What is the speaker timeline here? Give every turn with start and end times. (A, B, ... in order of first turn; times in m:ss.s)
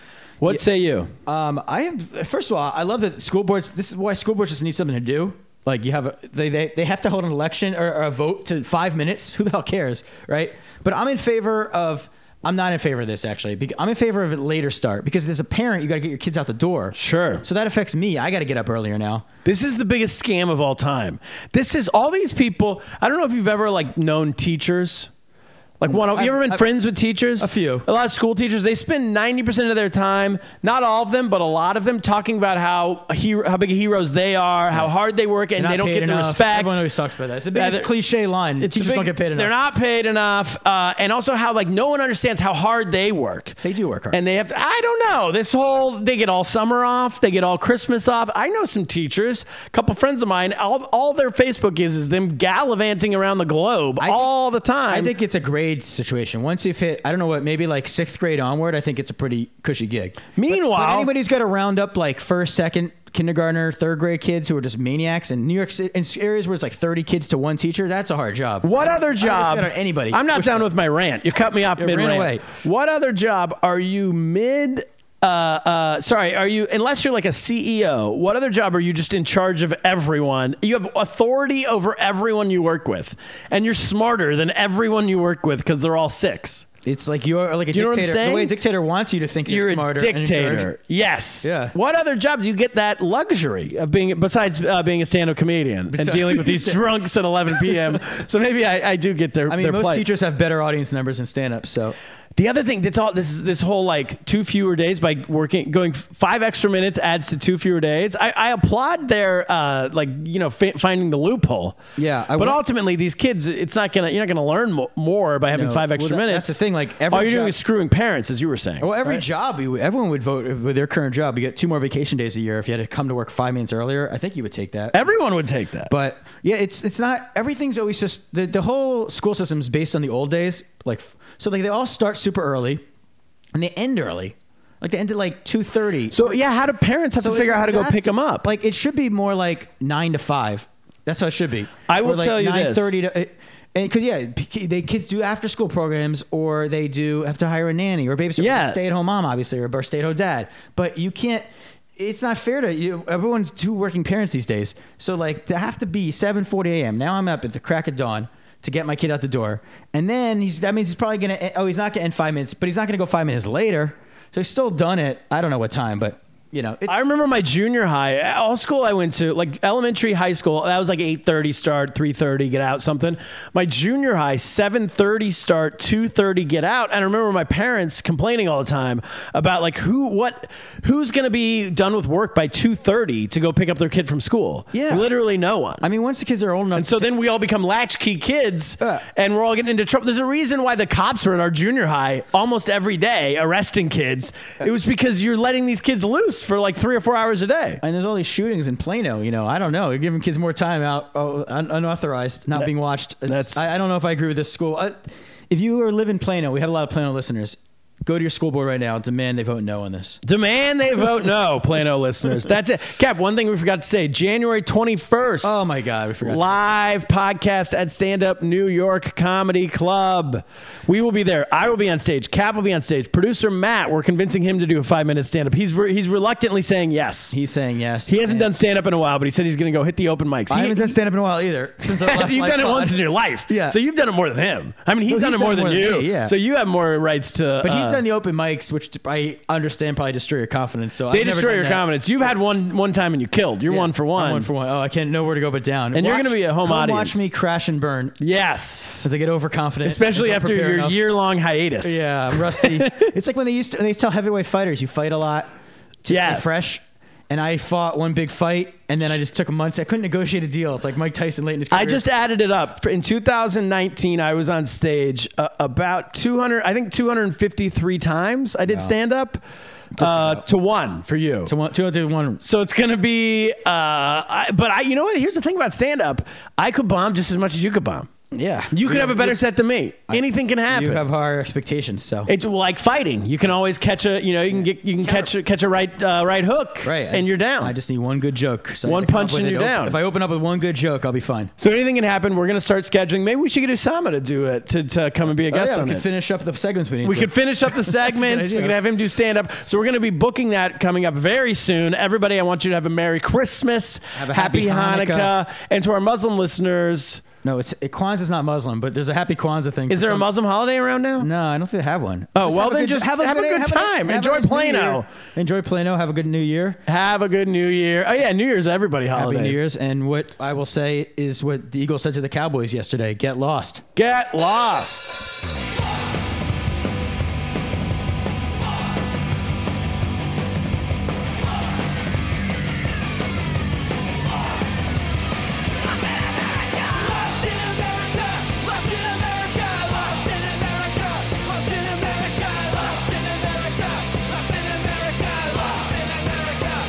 0:00.4-0:01.1 A
0:01.2-0:19.2 B
0:16.9-0:17.4 A
0:19.4-0:25.1 A
0:25.8-0:36.8 A
0:25.9-0:26.6 B
0:27.4-0:27.8 B
0:35.6-0:39.5 B
0:37.5-0:37.9 A
0:38.6-0:43.6 A
0:43.6-0:44.2 B
0:44.1-0:55.1 A
0:54.0-0:54.3 B
0:54.9-1:10.7 B
1:00.4-1:01.1 A
1:08.6-1:26.6 A
1:11.8-1:12.4 B
1:26.8-1:30.7 B
1:27.7-1:28.5 A
1:29.5-1:40.1 A
1:31.4-1:31.7 B
1:35.9-1:36.8 B
1:37.6-1:37.9 B
1:39.5-1:41.9 B
1:42.4-1:51.8 A
1:52.0-1:52.6 B
1:52.4-1:59.2 A
1:55.5-1:57.6 B
1:58.8-2:05.0 B
2:04.9-2:05.9 A
2:05.9-2:12.8 B
2:13.5-2:16.4 B
2:16.1-2:18.5 A
2:17.2-2:31.4 B
2:21.9-2:23.0 A
2:28.4-2:28.8 A
2:32.0-2:47.1 B
2:46.9-3:05.8 A
3:04.7-3:05.1 B
3:05.8-3:07.1 B
3:06.7-3:17.8 A
3:17.8-3:30.2 B
3:23.3-3:23.9 A
3:30.2-3:35.5 A
3:35.4-3:36.6 B
3:36.2-3:47.3 A
3:47.3-3:48.5 B
3:48.1-3:51.0 A
3:50.5-3:53.8 B
3:51.8-3:58.0 A
3:55.1-3:56.3 B
3:57.6-4:01.8 B
4:01.1-4:04.5 A
4:03.7-4:08.2 B
4:05.9-4:07.3 A
4:08.2-4:09.1 A
4:09.0-4:11.0 B
4:09.8-4:13.1 A
4:11.8-4:15.5 B
4:16.0-4:22.0 B
4:16.1-4:16.4 A
4:21.7-4:29.4 A
4:30.0-4:30.4 B
4:30.0-4:31.5 A
4:31.4-4:32.4 B
4:32.4-4:38.1 A
4:38.3-4:39.4 B
4:38.7-4:41.0 A
4:40.1-4:42.3 B
4:42.3-4:47.7 A
4:44.5-4:45.3 B
4:46.8-4:51.5 B
4:48.8-4:50.0 A
4:51.6-4:56.0 A
4:55.5-4:58.8 B
4:57.0-5:07.2 A
5:04.2-5:05.3 B
5:07.4-5:10.3 B
5:09.9-5:11.3 A
5:11.2-5:16.8 B
5:12.4-5:15.0 A
5:16.9-5:19.6 A
5:19.1-5:23.8 B
5:24.0-5:25.2 A
5:36.8-5:44.2 A
5:44.7-5:45.7 A